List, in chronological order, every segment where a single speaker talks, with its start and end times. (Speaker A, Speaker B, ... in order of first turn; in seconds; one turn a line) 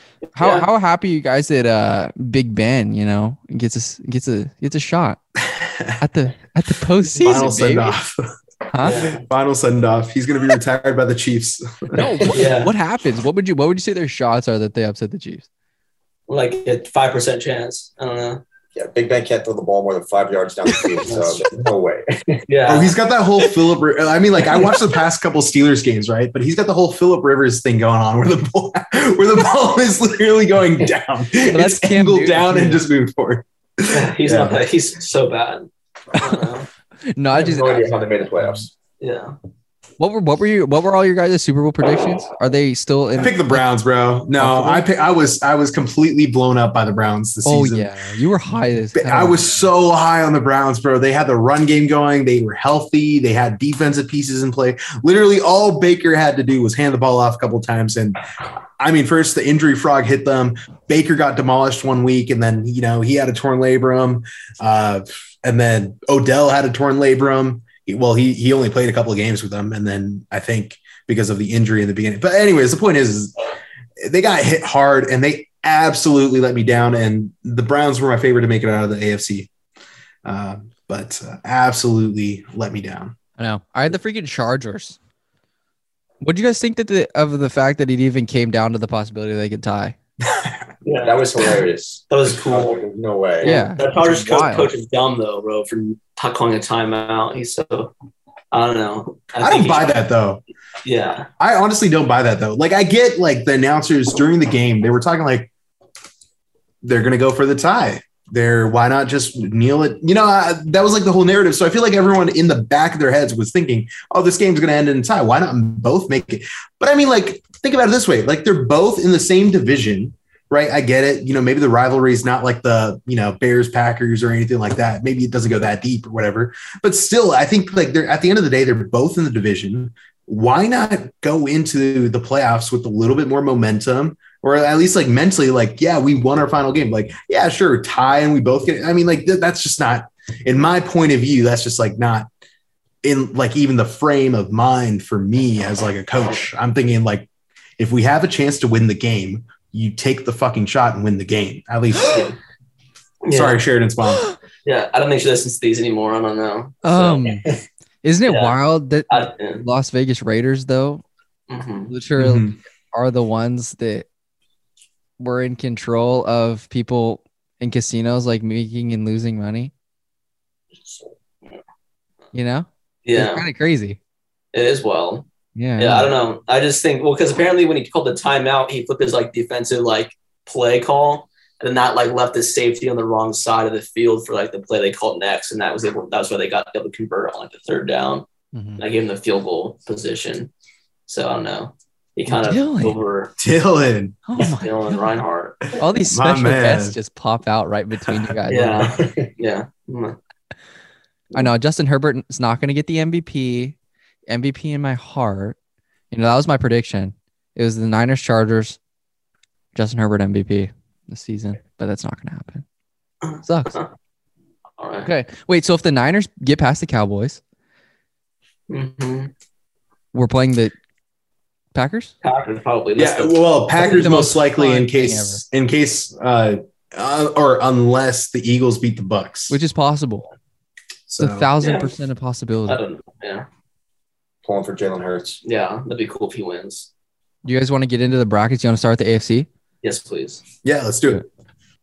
Speaker A: 0.3-0.7
Speaker B: 0.3-5.2
Speaker C: 5.4-6.0
Speaker B: 6.0-7.9
Speaker C: 7.1-8.2
Speaker B: 8.7-9.0
Speaker A: 8.8-9.2
Speaker C: 8.8-12.3
Speaker B: 11.9-15.5
Speaker A: 12.3-12.7
Speaker A: 16.3-18.4
Speaker D: 18.8-22.4
Speaker B: 20.7-21.0
Speaker A: 21.1-21.5
Speaker A: 22.5-22.9
Speaker C: 22.7-34.6
Speaker B: 31.4-32.8
Speaker A: 33.9-36.7
Speaker B: 36.1-36.5
Speaker B: 37.1-38.7
Speaker D: 37.3-38.7
Speaker A: 39.0-39.4
Speaker B: 40.0-43.6
Speaker C: 43.2-47.9
Speaker B: 44.4-44.9
Speaker B: 47.4-49.6
Speaker C: 48.9-58.2
Speaker C: 58.8-73.3
Speaker C: 74.0-79.5
Speaker C: 80.2-83.2
Speaker B: 83.4-85.0
Speaker B: 86.2-90.0
Speaker C: 90.2-90.7
Speaker A: 90.8-92.8
Speaker D: 91.0-93.6
Speaker A: 93.4-97.9
Speaker B: 93.4-94.7
Speaker A: 98.5-100.0
Speaker C: 99.4-100.4
Speaker A: 100.8-101.3
Speaker C: 101.4-105.5
Speaker C: 106.8-142.3
Speaker C: 143.0-152.3
Speaker A: 152.1-152.4
Speaker A: 153.2-153.6
Speaker C: 153.3-154.3
Speaker A: 154.7-157.3
Speaker B: 156.8-157.4
Speaker B: 158.0-161.0
Speaker A: 158.3-158.6
Speaker A: 159.1-159.7
Speaker A: 161.5-161.9
Speaker B: 161.9-164.1
Speaker C: 162.2-162.6
Speaker B: 165.2-169.7
Speaker B: 172.3-174.0
Speaker A: 173.1-173.4
Speaker A: 174.5-175.3
Speaker B: 175.6-176.1
Speaker A: 175.8-188.3
Speaker B: 188.5-188.8
Speaker A: 188.8-190.5
Speaker A: 191.1-193.3
Speaker B: 192.3-193.0
Speaker C: 193.4-194.2
Speaker B: 194.3-195.2
Speaker A: 194.4-195.8
Speaker B: 195.8-198.9
Speaker C: 196.1-197.0
Speaker A: 198.5-200.2
Speaker B: 201.3-203.8
Speaker B: 204.3-205.6
Speaker B: 206.1-208.8
Speaker B: 209.8-212.6
Speaker A: 213.3-213.9
Speaker B: 213.4-213.8
Speaker A: 214.8-215.1
Speaker B: 215.0-217.4
Speaker A: 218.7-219.3
Speaker B: 220.1-220.7
Speaker B: 221.7-222.1
Speaker A: 222.2-224.0
Speaker C: 223.0-229.6
Speaker B: 223.8-225.4
Speaker B: 229.5-230.3
Speaker C: 231.1-231.5
Speaker B: 231.2-232.8
Speaker A: 231.6-231.9
Speaker A: 232.7-233.5
Speaker D: 234.4-235.4
Speaker A: 235.4-236.9
Speaker B: 237.4-239.5
Speaker A: 239.8-240.4
Speaker C: 240.6-241.2